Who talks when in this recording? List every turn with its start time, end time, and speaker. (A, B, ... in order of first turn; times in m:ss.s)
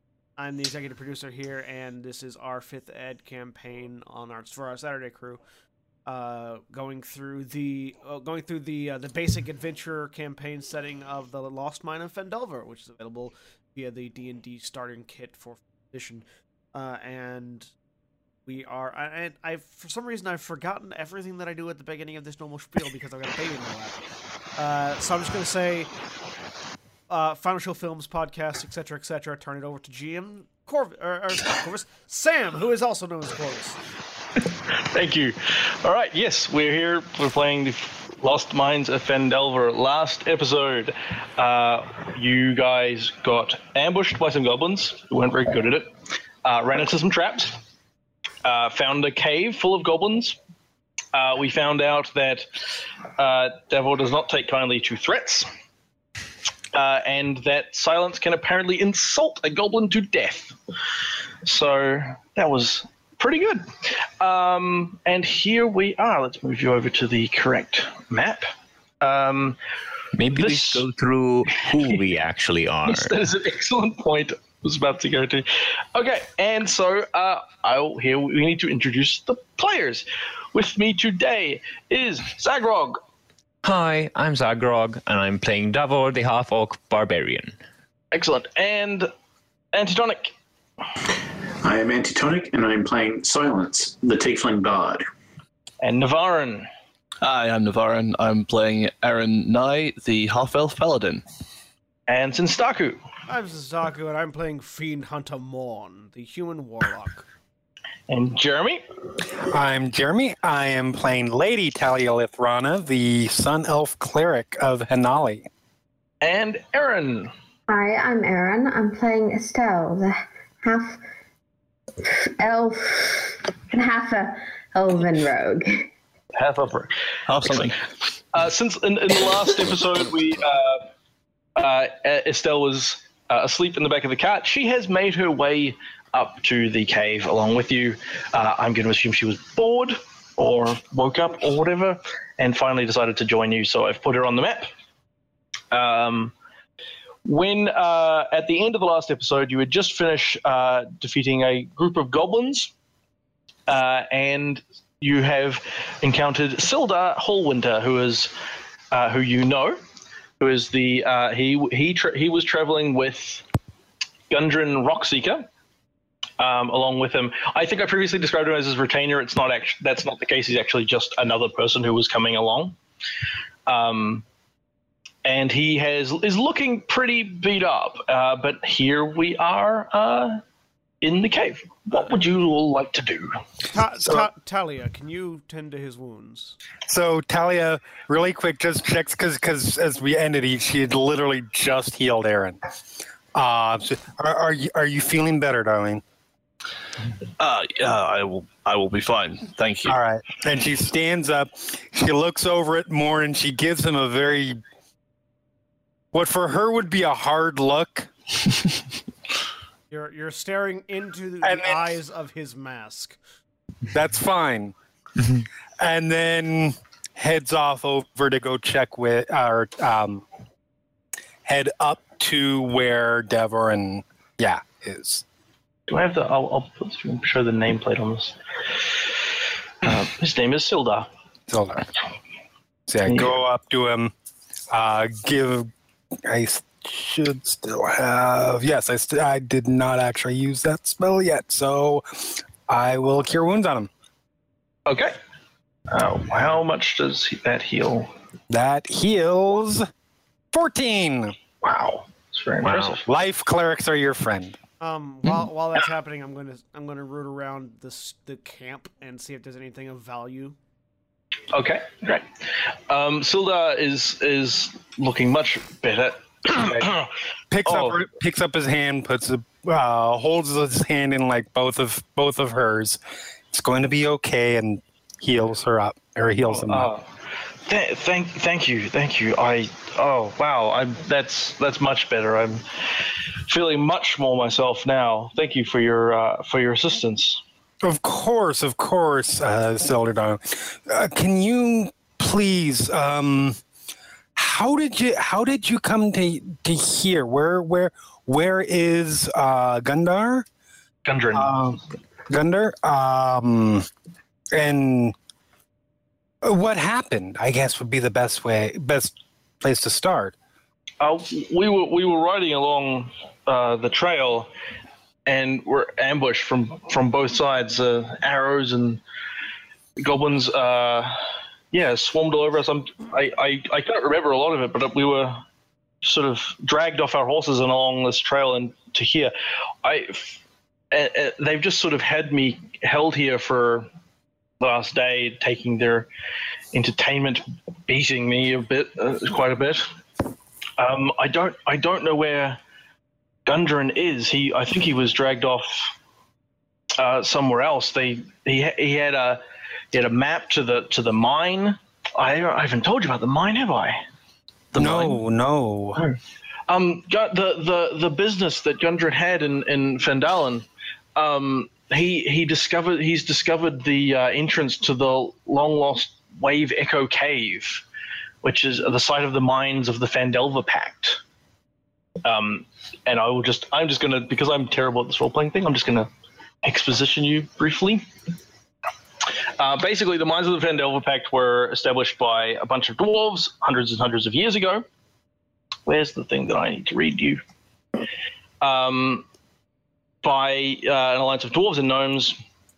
0:00.4-0:05.4 A
0:06.1-0:17.7 A
0:18.5-0:24.0 A
0:24.6-0:25.9 A
0:27.1-0:33.8 A
0:34.9-0:45.9 B
0:46.4-0:47.6 B
0:48.4-0:50.4 B
0:51.1-0:52.5 B
0:53.2-0:55.5 B
0:56.7-1:00.6 B
1:01.4-1:03.7 B
1:04.2-1:08.5 B
1:09.0-1:09.6 B
1:10.2-1:13.1 C
1:10.3-1:10.8 B
1:11.5-1:12.0 B
1:12.8-1:23.0 B
1:23.6-1:27.5 C
1:28.1-1:29.1 B
1:29.7-1:30.3 B
1:31.6-1:35.1 D
1:35.8-1:36.7 B
1:37.2-1:41.2 E
1:42.1-1:43.0 B
1:43.3-1:47.3 A
1:48.1-1:48.8 B
1:49.5-1:55.5 F
1:56.2-1:57.3 B
1:57.7-2:01.0 G
2:02.0-2:05.9 G
2:06.4-2:06.9 B
2:07.3-2:07.8 E
2:07.5-2:07.7 B
2:08.3-2:10.8 B
2:11.6-2:24.7 B
2:25.7-2:26.3 B
2:27.2-2:32.7 B
2:33.7-2:38.3 B
2:38.9-2:39.8 B
2:40.4-2:43.4 B
2:44.3-2:45.5 B
2:46.4-2:52.8 B
2:53.7-2:54.2 B
2:55.2-3:00.4 B
3:01.0-3:03.3 B
3:03.7-3:06.6 A
3:06.9-3:12.6 F
3:13.3-3:16.0 F
3:17.4-3:20.0 E
3:19.9-3:24.6 F
3:26.1-3:28.1 F
3:29.9-3:33.2 A
3:31.4-3:32.0 F
3:33.9-3:34.8 F
3:35.8-3:40.2 F
3:41.4-3:45.2 F
3:45.9-3:48.4 B
3:49.8-3:51.1 B
3:51.5-3:51.9 F
3:52.9-3:54.1 F
3:53.1-3:53.3 B
3:54.7-3:55.7 F
3:56.2-4:03.9 F
4:04.9-4:05.2 B
4:05.9-4:08.1 B
4:08.5-4:09.9 F
4:10.5-4:11.4 F
4:11.6-4:13.0 B
4:12.6-4:13.0 C
4:13.0-4:14.6 F
4:14.8-4:20.6 A
4:21.5-4:27.1 B
4:27.5-4:33.0 F
4:27.6-4:28.0 B
4:33.5-4:36.9 F
4:36.5-4:37.1 B
4:37.7-4:42.6 B
4:43.5-4:47.4 B
4:47.8-4:53.6 F
4:54.4-5:00.5 F
5:01.0-5:01.5 B
5:01.3-5:03.9 F
5:04.5-5:05.2 F
5:06.4-5:10.3 F
5:11.0-5:14.5 B
5:15.3-5:19.0 B
5:20.0-5:21.2 B
5:21.7-5:25.4 B
5:26.0-5:29.3 B
5:29.8-5:30.4 B
5:30.9-5:33.9 B
5:34.6-5:36.1 B
5:36.7-5:39.9 B
5:40.8-5:42.6 B
5:43.5-5:45.9 B
5:47.0-5:49.4 B
5:49.9-5:54.0 B
5:54.8-5:56.0 F
5:54.8-5:55.1 E
5:56.7-6:07.8 B
6:08.4-6:11.2 B
6:12.2-6:16.1 B
6:16.6-6:18.0 B
6:19.6-6:24.8 B
6:25.9-6:27.4 B
6:28.6-6:29.3 B
6:30.2-6:32.4 B